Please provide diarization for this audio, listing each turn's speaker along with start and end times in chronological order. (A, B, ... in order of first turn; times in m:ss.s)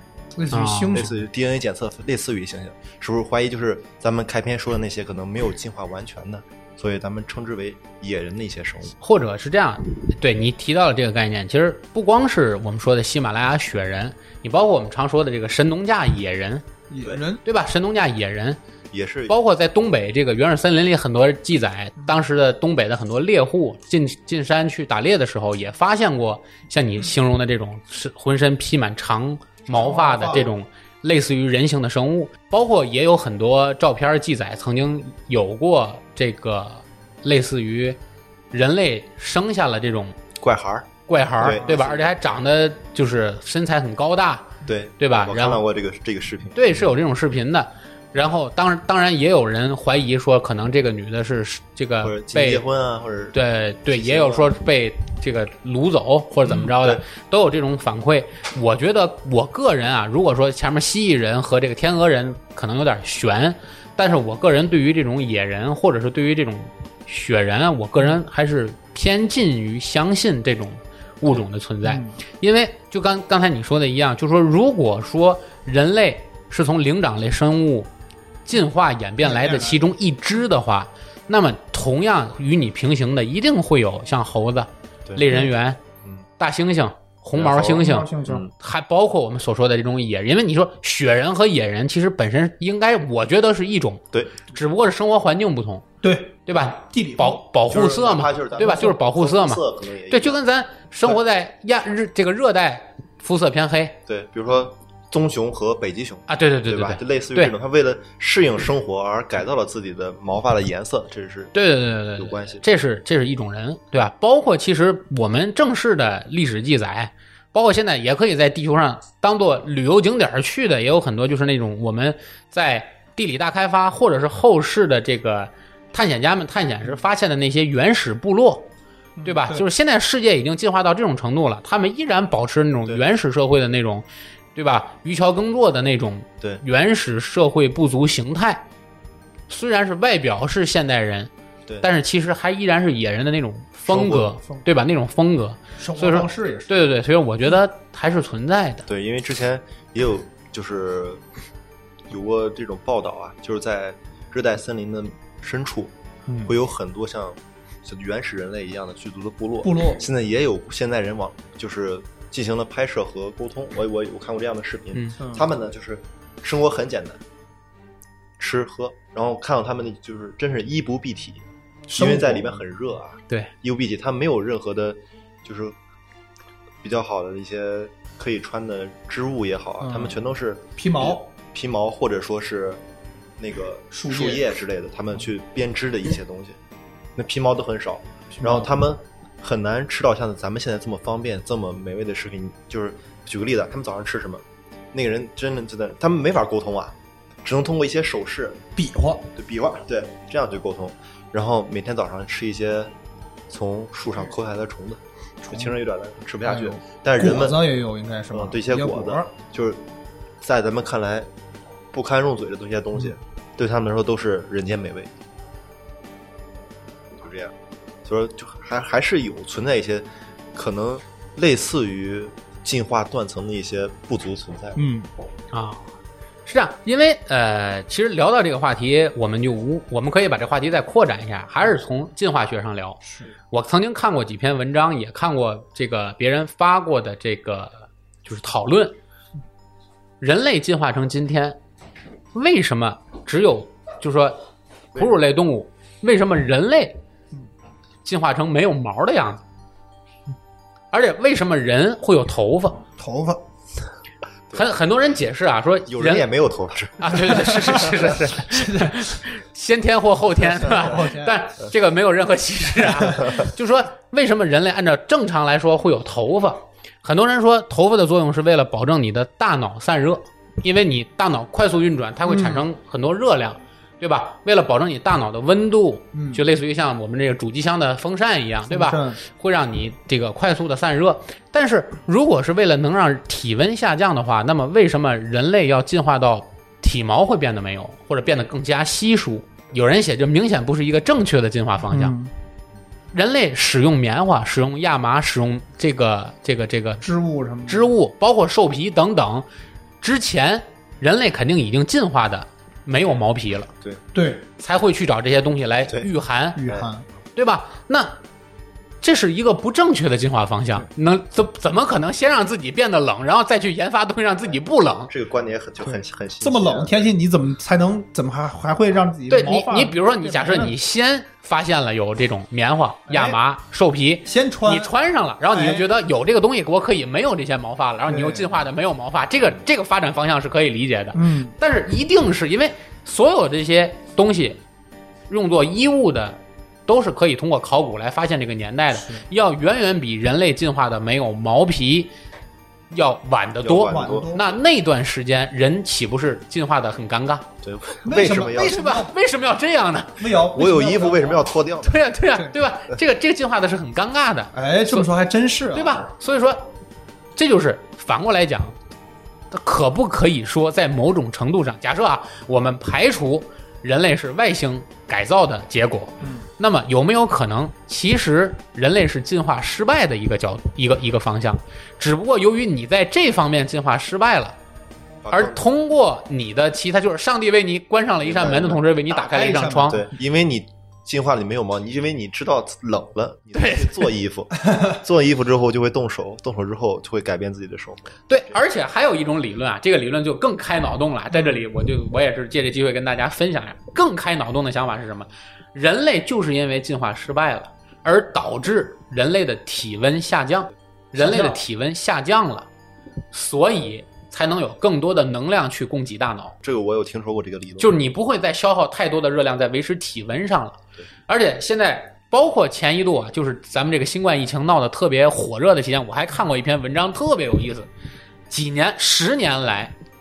0:00.3-0:01.1 A
0:00.5-0:01.0 B
0:00.9-0:09.0 C
0:09.0-0:16.6 B
0:16.9-0:17.4 A
0:17.4-0:18.6 B
0:18.9-0:19.4 C
0:19.3-0:38.0 B
0:29.7-0:30.5 A
0:38.5-0:40.2 B
0:40.4-0:42.1 C
0:41.1-0:45.6 B
0:44.6-0:46.7 C
0:46.5-0:52.6 B
0:52.0-0:54.6 C
0:53.3-1:17.9 B
0:56.5-0:57.0 C
1:11.8-1:12.2 A
1:18.4-1:25.8 B
1:19.2-1:19.8 A
1:26.4-1:35.8 B
1:27.3-1:28.5 C
1:27.7-1:28.4 A
1:36.0-1:37.4 A
1:36.4-1:44.0 B
1:37.7-1:40.4 C
1:38.6-1:39.0 A
1:44.1-1:51.5 C
1:46.3-1:47.5 B
1:51.5-2:08.7 B
1:52.2-1:52.6 C
2:09.2-2:09.6 A
2:09.2-2:18.6 B
2:19.5-2:21.3 B
2:21.8-2:28.8 B
2:23.9-2:24.3 C
2:25.8-2:26.7 A
2:28.9-2:31.2 C
2:32.1-2:35.9 C
2:36.3-2:36.5 A
2:36.4-2:47.2 C
2:39.6-2:40.0 A
2:45.2-2:45.5 A
2:48.4-2:55.8 C
2:51.9-2:52.6 A
2:56.8-3:02.8 C
2:59.8-3:00.2 A
3:00.8-3:01.2 A
3:03.4-3:06.6 C
3:03.9-3:04.5 A
3:07.2-3:18.6 C
3:08.3-3:08.7 A
3:18.8-3:19.3 A
3:19.4-3:22.9 C
3:23.5-3:27.6 C
3:25.5-3:25.8 A
3:26.4-3:29.3 A
3:28.3-3:29.8 C
3:30.4-3:31.3 C
3:31.9-3:35.1 C
3:37.1-3:37.5 C
3:38.0-3:44.8 C
3:44.8-3:45.1 A
3:45.5-3:45.8 B
3:46.4-3:53.0 B
3:53.5-3:59.0 B
4:00.2-4:01.6 B
4:02.3-4:04.4 B
4:04.9-4:07.0 B
4:08.0-4:09.4 B
4:10.9-4:12.8 B
4:13.0-4:13.4 A
4:14.5-4:16.2 B
4:15.9-4:17.9 C
4:17.0-4:52.1 B
4:18.5-4:18.9 A
4:20.6-4:21.4 A
4:32.2-4:32.6 A
4:36.1-4:36.4 A
4:38.7-4:39.2 A
4:51.9-4:52.3 A
4:53.1-4:57.0 B
4:57.0-4:57.9 A
4:57.7-4:59.4 B
5:00.0-5:03.7 B
5:04.1-5:04.4 A
5:04.6-5:06.6 B
5:06.6-5:07.0 A
5:06.6-5:06.9 C
5:07.4-5:08.2 B
5:09.0-5:15.1 B
5:15.1-5:17.0 C
5:15.8-5:20.7 A
5:19.3-5:34.6 B
5:23.1-5:23.4 A
5:24.2-5:24.9 A
5:25.5-5:25.8 A
5:28.1-5:28.6 A
5:31.1-5:31.5 A
5:35.3-5:42.1 B
5:39.0-5:39.2 A
5:42.9-5:47.5 B
5:43.6-5:44.4 C
5:43.8-5:44.5 A
5:47.6-5:48.8 C
5:48.0-5:49.1 A
5:48.5-5:50.2 B
5:50.2-5:51.5 A
5:50.5-5:52.1 C
5:51.8-5:55.1 B
5:54.5-5:56.0 A
5:55.7-5:56.7 B
5:57.4-5:58.8 B
5:59.5-6:14.6 B
6:15.2-6:15.6 C
6:15.3-6:20.0 B
6:18.2-6:18.8 C
6:19.1-6:20.1 A
6:19.9-6:28.4 C
6:23.5-6:24.1 B
6:28.3-6:42.7 B
6:41.2-6:41.6 A
6:43.3-6:46.6 B
6:46.6-6:48.0 C
6:47.8-6:57.9 B
6:58.5-6:59.9 B